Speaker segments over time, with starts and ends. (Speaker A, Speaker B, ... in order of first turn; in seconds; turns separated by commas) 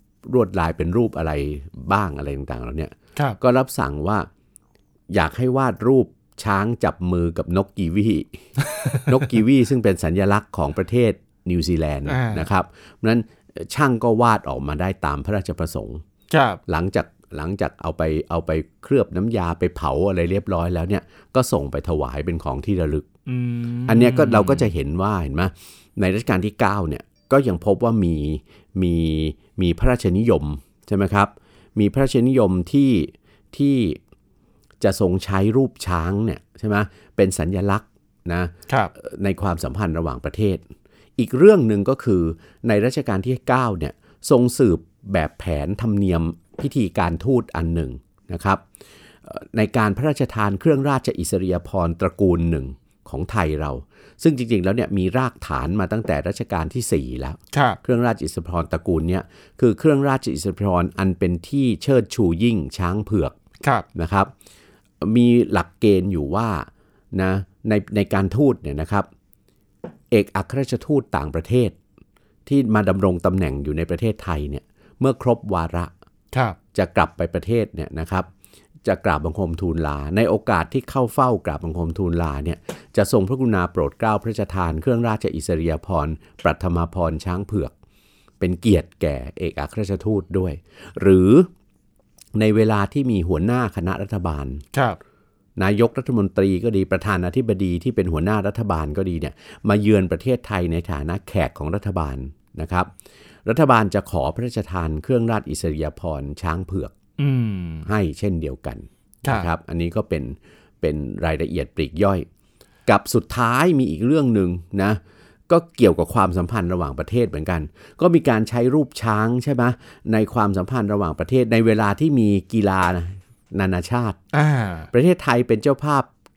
Speaker A: 0.3-4.3, Speaker A: 5.1-8.4, Speaker A: 9.1-16.0, Speaker B: 12.1-12.5, Speaker B: 16.3-16.6, Speaker A: 16.7-23.1, Speaker B: 23.3-24.7, Speaker A: 23.9-34.0, Speaker A: 34.8-40.6, Speaker A: 41.2-48.6, Speaker A: 49.2-63.4, Speaker B: 57.5-57.8, Speaker A: 64.0-64.3, Speaker A: 65.0-69.1, Speaker A: 70.1-71.8, Speaker A: 72.5-75.9, Speaker B: 76.3-76.6, Speaker A: 76.7-78.3, Speaker A: 78.8-87.7, Speaker A: 88.4-91.5, Speaker A: 92.4-94.6, Speaker B: 94.7-95.0, Speaker A: 95.6-102.9, Speaker A: 103.5-107.0, Speaker B: 107.2-107.9, Speaker A: 107.8-112.3, Speaker B: 109.2-109.5, Speaker A: 112.9-124.2, Speaker B: 124.3-124.9, Speaker A: 124.9-126.1